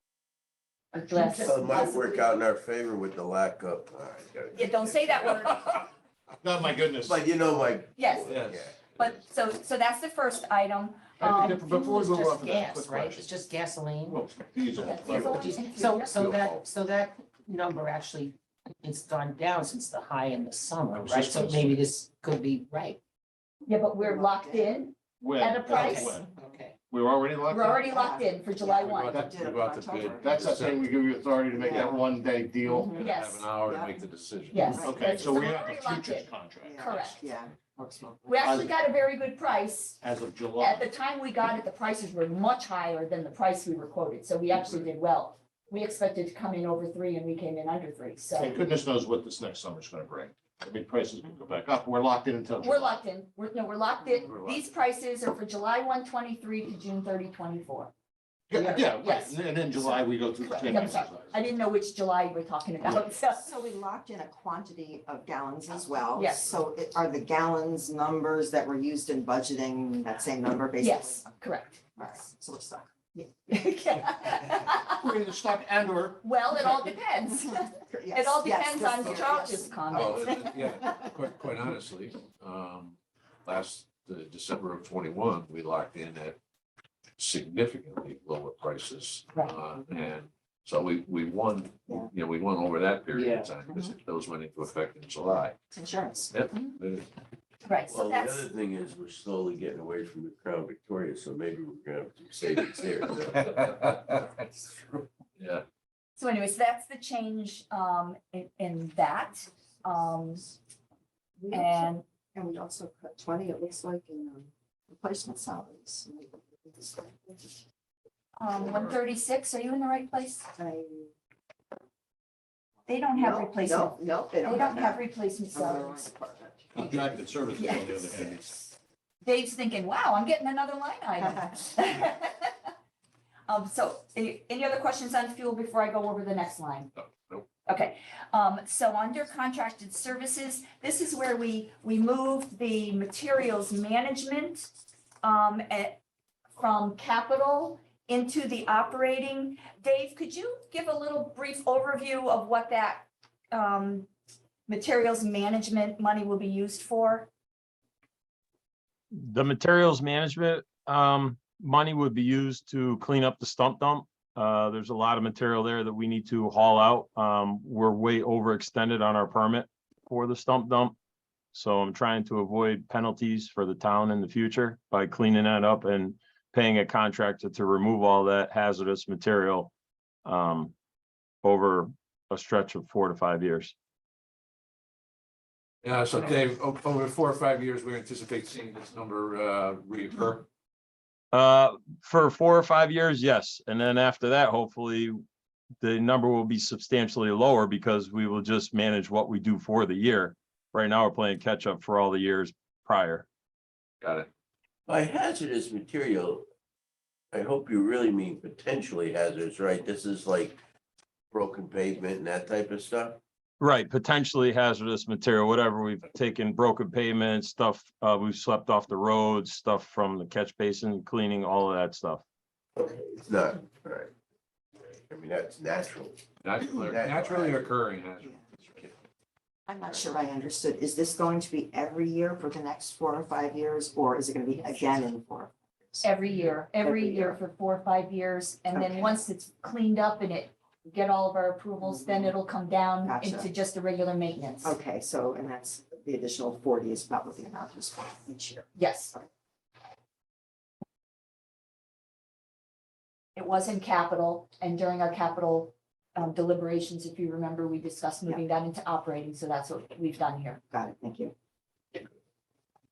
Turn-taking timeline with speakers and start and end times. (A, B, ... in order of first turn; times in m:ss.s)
0:00.9-0:02.3 A
0:01.2-0:05.7 B
0:04.5-0:05.8 A
0:06.4-0:07.2 C
0:07.0-0:08.8 B
0:08.0-0:08.4 A
0:08.3-0:08.6 D
0:09.0-0:11.7 A
0:11.2-0:13.4 C
0:11.4-0:14.2 E
0:14.0-0:15.6 C
0:14.8-0:23.0 E
0:14.8-0:16.1 A
0:16.1-0:16.6 D
0:21.0-0:21.8 C
0:23.7-0:26.2 A
0:24.0-0:24.8 F
0:25.2-0:26.3 C
0:25.8-0:26.8 E
0:26.9-0:28.0 C
0:27.5-0:29.2 A
0:27.9-0:30.4 F
0:28.7-0:30.8 D
0:30.2-0:33.0 C
0:31.5-0:32.0 F
0:32.7-0:33.1 F
0:32.9-0:34.8 D
0:32.9-0:33.4 A
0:33.7-0:34.0 F
0:34.5-0:37.2 A
0:34.7-0:35.3 F
0:34.8-0:37.0 C
0:36.6-0:38.5 F
0:38.3-0:40.0 A
0:38.4-0:38.7 C
0:40.0-0:40.9 C
0:40.6-0:48.6 A
0:48.4-0:53.0 C
0:52.6-0:57.9 A
0:54.3-0:54.6 D
0:58.5-1:01.3 C
0:58.5-1:03.5 A
1:03.3-1:11.3 F
1:06.2-1:06.5 A
1:10.8-1:11.8 A
1:12.0-1:12.9 F
1:13.2-1:15.1 A
1:14.8-1:16.2 C
1:16.2-1:20.4 A
1:17.5-1:20.7 F
1:19.9-1:26.4 D
1:27.2-1:35.6 D
1:33.1-1:33.5 E
1:35.7-1:36.4 F
1:36.3-1:37.1 D
1:37.7-1:38.5 A
1:37.9-1:43.6 B
1:43.4-1:44.3 D
1:45.4-1:45.6 D
1:46.2-1:50.4 A
1:51.4-1:57.6 F
1:51.5-1:52.0 A
1:58.4-2:00.5 A
2:00.6-2:01.1 F
2:02.9-2:06.0 A
2:03.1-2:07.0 F
2:06.8-2:08.4 C
2:07.6-2:08.2 A
2:09.2-2:12.7 A
2:11.2-2:11.5 F
2:13.5-2:16.9 A
2:17.0-2:17.5 D
2:17.7-2:24.7 A
2:25.2-2:26.0 A
2:26.6-2:34.1 A
2:34.7-2:37.3 A
2:39.3-2:51.0 G
2:51.5-2:59.7 G
3:00.2-3:00.7 G
3:01.4-3:03.7 G
3:05.8-3:10.5 D
3:11.3-3:15.2 G
3:15.8-3:23.3 G
3:24.0-3:24.3 D
3:24.9-3:26.4 B
3:27.3-3:30.6 B
3:31.3-3:33.2 B
3:33.6-3:42.2 G
3:42.8-3:44.1 B
3:45.1-3:47.7 B
3:46.4-3:48.9 D
3:49.7-3:57.4 F
3:56.0-4:04.8 A
3:58.7-3:59.2 F
4:01.8-4:02.3 F
4:03.0-4:03.5 F
4:04.6-4:09.3 F
4:08.8-4:09.1 A
4:13.4-4:20.6 A
4:20.7-4:21.3 F